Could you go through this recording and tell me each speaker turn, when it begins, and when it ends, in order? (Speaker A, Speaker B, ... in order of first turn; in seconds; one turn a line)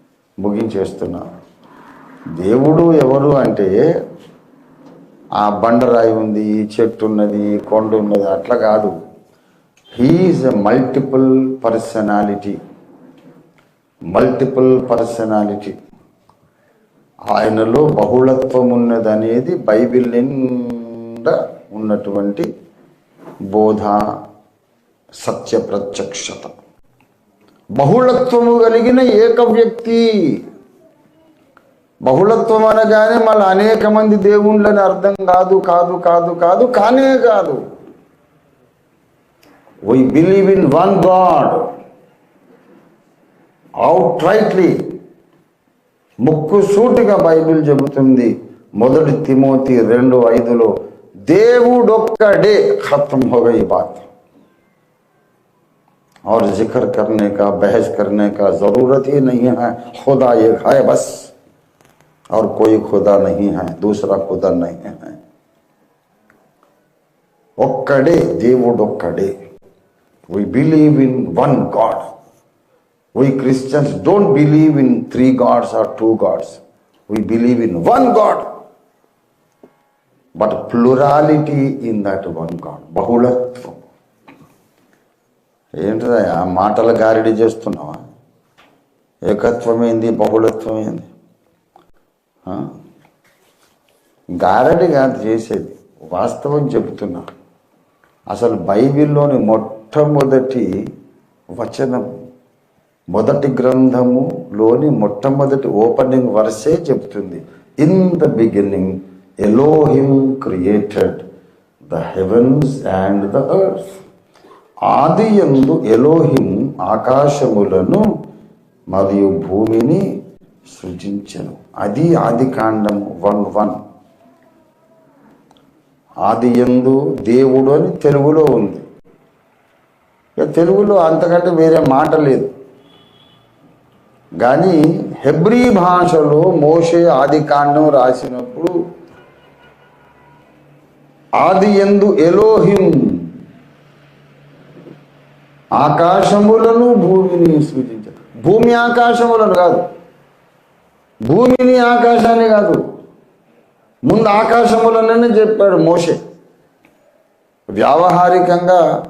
Speaker A: 0.4-1.2
Speaker A: 2.4-3.8
Speaker A: 5.4-8.9
Speaker A: 9.9-12.6
Speaker A: 14.1-15.8
Speaker A: 17.3-22.5
Speaker A: 23.5-24.0
Speaker A: 25.2-26.5
Speaker A: 27.8-30.3
Speaker A: 32.0-37.6
Speaker A: 39.9-41.7
Speaker A: 43.8-44.8
Speaker A: 46.2-50.7
Speaker A: 51.3-54.0
Speaker A: 56.3-61.3
Speaker A: 62.3-65.1
Speaker A: 67.6-69.3
Speaker A: 70.3-72.0
Speaker A: 73.1-78.5
Speaker A: 80.4-83.8
Speaker A: 85.8-88.0
Speaker A: 89.3-91.1
Speaker A: 94.4-97.2
Speaker A: 98.3-100.8
Speaker A: 101.5-102.1
Speaker A: 103.1-111.2
Speaker A: 111.9-113.8
Speaker A: 114.9-118.0
Speaker A: 118.9-120.0
Speaker A: 120.7-123.8
Speaker A: 126.2-128.8
Speaker A: 130.4-132.5
Speaker A: 134.4-138.7
Speaker A: 141.4-143.3
Speaker A: 145.8-149.8
Speaker A: 151.2-152.8
Speaker A: 154.1-156.2
Speaker A: 157.8-158.8